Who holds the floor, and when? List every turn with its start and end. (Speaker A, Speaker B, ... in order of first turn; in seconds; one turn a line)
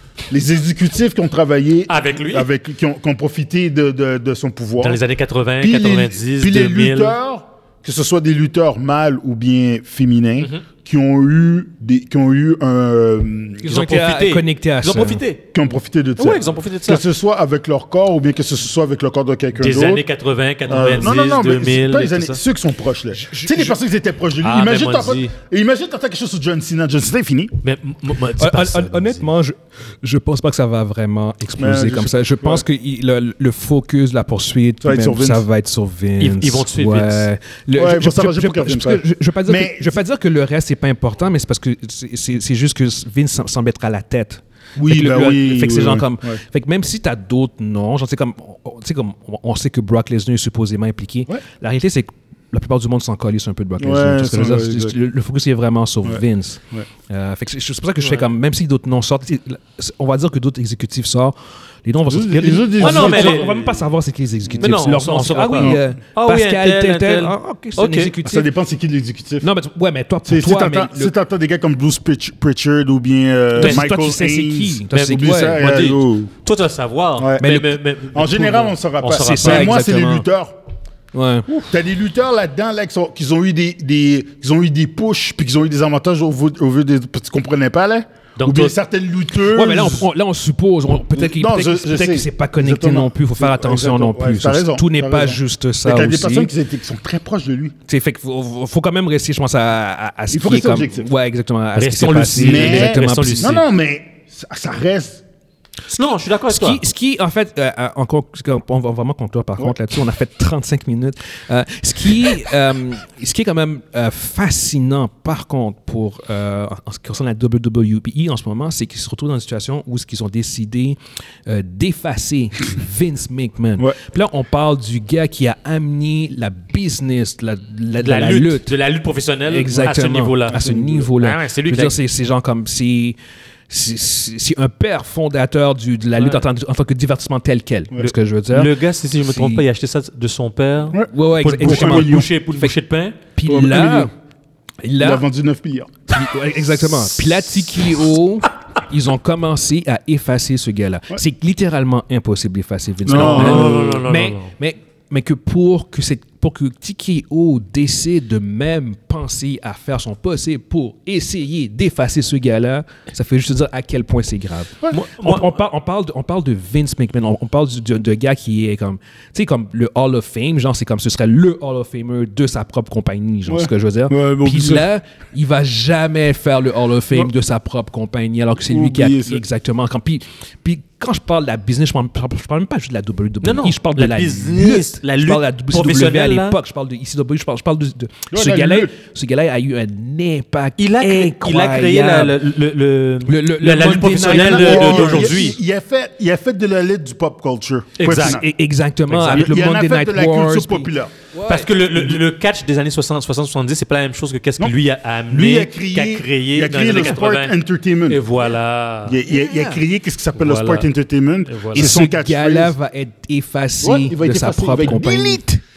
Speaker A: 0.3-5.0
Speaker B: 1.9-2.5
Speaker B: 4.8-7.2
Speaker A: 5.6-13.6
Speaker B: 10.4-10.6
Speaker C: 13.6-15.2
Speaker B: 13.7-15.4
Speaker A: 15.5-20.0
Speaker B: 16.2-17.0
Speaker B: 19.6-22.4
Speaker A: 20.7-27.5
Speaker C: 23.1-23.7
Speaker B: 24.4-25.3
Speaker B: 27.6-29.2
Speaker C: 28.4-68.5
Speaker A: 31.6-32.6
Speaker A: 34.8-35.4
Speaker B: 36.2-37.3
Speaker A: 37.8-40.0
Speaker A: 44.8-46.4
Speaker A: 53.8-55.0
Speaker A: 56.0-56.9
Speaker A: 62.1-63.5
Speaker B: 62.8-63.8
Speaker B: 64.6-68.2
Speaker A: 65.6-65.8
Speaker A: 68.2-69.5
Speaker C: 69.4-71.1
Speaker A: 70.2-76.3
Speaker C: 73.5-75.7
Speaker B: 74.9-79.8
Speaker A: 77.2-77.5
Speaker C: 77.4-77.8
Speaker A: 78.1-80.6
Speaker C: 79.1-80.2
Speaker C: 81.1-81.6
Speaker A: 81.5-90.1
Speaker B: 88.4-88.7
Speaker C: 89.5-96.5
Speaker A: 91.1-97.7
Speaker C: 97.9-103.5
Speaker A: 100.3-101.1
Speaker B: 101.8-103.6
Speaker A: 102.4-105.2
Speaker B: 105.9-106.8
Speaker C: 106.5-128.7
Speaker B: 128.0-131.9
Speaker C: 129.5-133.2
Speaker A: 130.5-131.1
Speaker C: 133.7-138.7
Speaker B: 136.2-136.4
Speaker B: 138.0-143.2
Speaker C: 139.2-139.6
Speaker A: 140.9-142.3
Speaker C: 141.1-142.7
Speaker C: 143.3-144.1
Speaker A: 143.4-144.1
Speaker C: 144.8-145.2
Speaker A: 145.0-145.9
Speaker C: 146.1-192.3
Speaker A: 153.0-154.0
Speaker B: 153.1-154.5
Speaker B: 164.9-165.5
Speaker A: 173.5-174.9
Speaker A: 178.7-179.4
Speaker B: 183.4-186.6
Speaker A: 188.3-188.9
Speaker B: 190.8-195.6
Speaker C: 193.2-195.5
Speaker A: 194.2-198.5
Speaker B: 198.0-198.4
Speaker C: 198.1-201.8
Speaker B: 199.1-199.5
Speaker A: 199.3-201.1
Speaker B: 201.5-207.5
Speaker A: 205.3-208.2
Speaker B: 208.1-209.2
Speaker A: 209.1-212.7
Speaker C: 209.3-209.8
Speaker B: 210.3-210.9
Speaker B: 211.4-211.9
Speaker C: 211.7-215.6
Speaker A: 213.8-215.4